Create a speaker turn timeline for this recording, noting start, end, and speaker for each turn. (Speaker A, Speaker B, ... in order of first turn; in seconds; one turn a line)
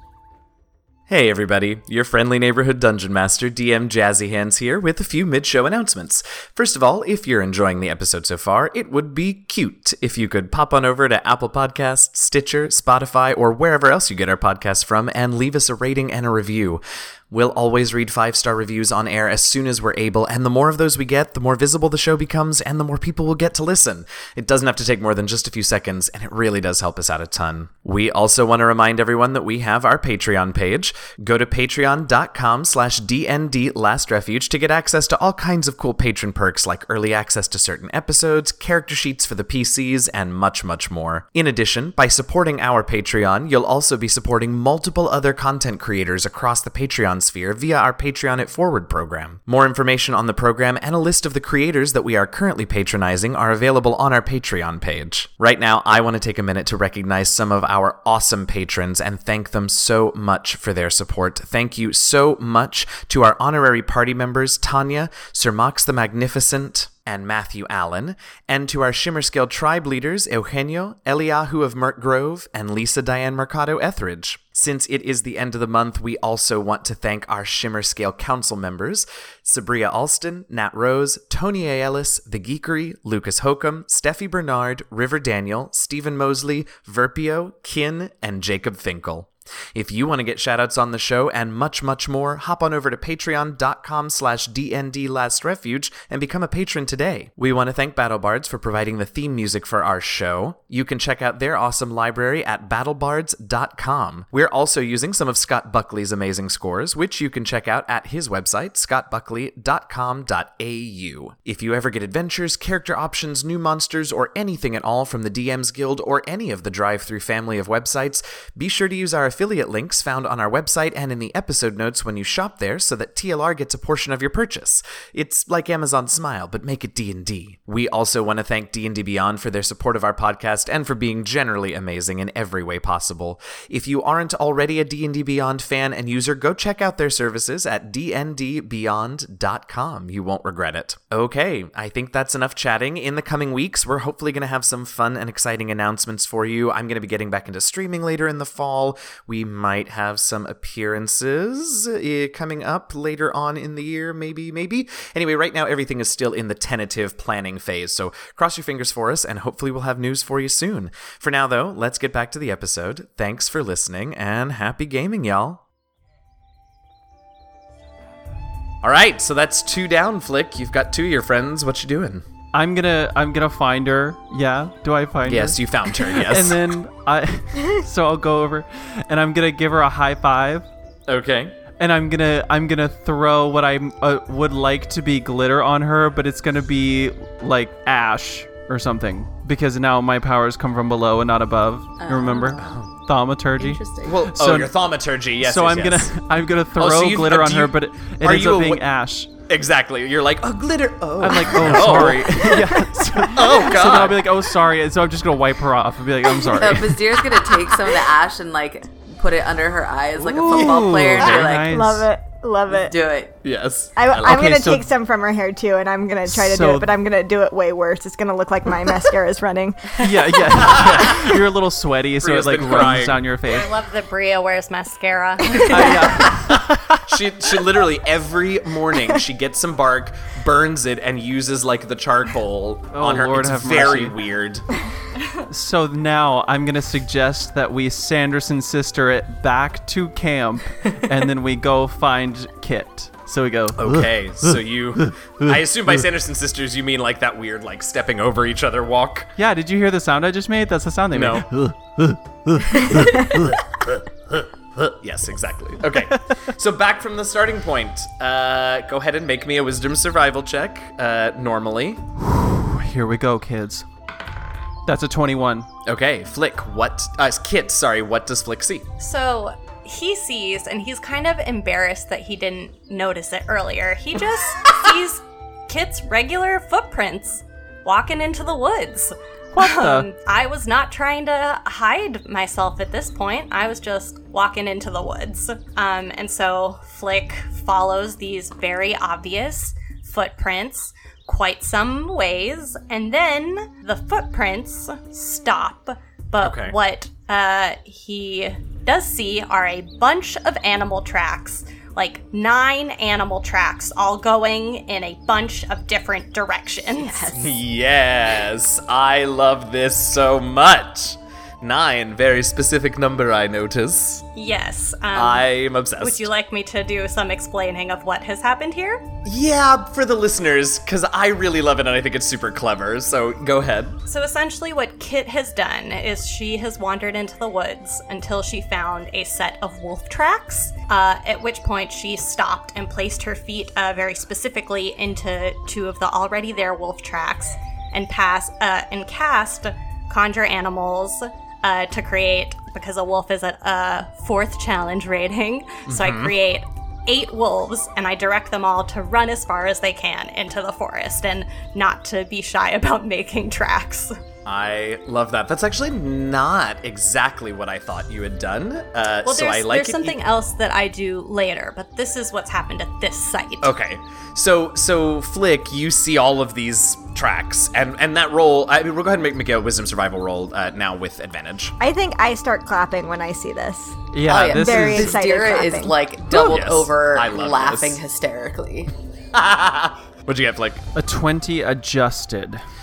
Speaker A: 1.1-165.6
Speaker A: 168.8-172.2
Speaker B: 172.5-180.7
Speaker A: 175.2-176.6
Speaker A: 181.1-181.6
Speaker B: 181.8-194.7
Speaker C: 192.0-192.7
Speaker A: 192.6-192.9
Speaker C: 193.6-194.2
Speaker A: 194.0-196.1
Speaker B: 195.4-199.3
Speaker A: 196.8-198.8
Speaker A: 199.5-204.3
Speaker B: 201.2-207.4
Speaker C: 206.5-211.7
Speaker B: 210.2-212.1
Speaker D: 211.4-212.9
Speaker C: 212.7-213.3
Speaker A: 213.4-214.4
Speaker D: 213.9-220.4
Speaker B: 214.2-214.9
Speaker B: 216.3-216.9
Speaker B: 220.0-223.7
Speaker A: 220.6-221.3
Speaker A: 222.2-223.2
Speaker E: 223.5-226.3
Speaker B: 225.5-227.1
Speaker A: 226.5-234.7
Speaker B: 232.9-234.2
Speaker B: 235.5-244.0
Speaker A: 243.7-249.3
Speaker B: 249.4-253.3
Speaker A: 251.1-251.5
Speaker A: 254.8-262.0
Speaker B: 262.2-263.9
Speaker B: 264.9-265.7
Speaker A: 265.9-268.9
Speaker E: 269.0-307.4
Speaker B: 279.5-280.1
Speaker A: 296.4-296.8
Speaker C: 307.0-307.5
Speaker A: 307.3-314.2
Speaker E: 314.4-319.0
Speaker A: 315.1-316.3
Speaker A: 319.2-323.9
Speaker E: 324.1-354.1
Speaker A: 345.9-346.3
Speaker A: 354.4-360.2
Speaker E: 359.2-363.7
Speaker A: 363.6-371.8
Speaker D: 371.8-375.9
Speaker B: 374.1-375.2
Speaker C: 374.2-378.9
Speaker A: 376.3-378.0
Speaker A: 379.3-380.9
Speaker B: 380.9-382.6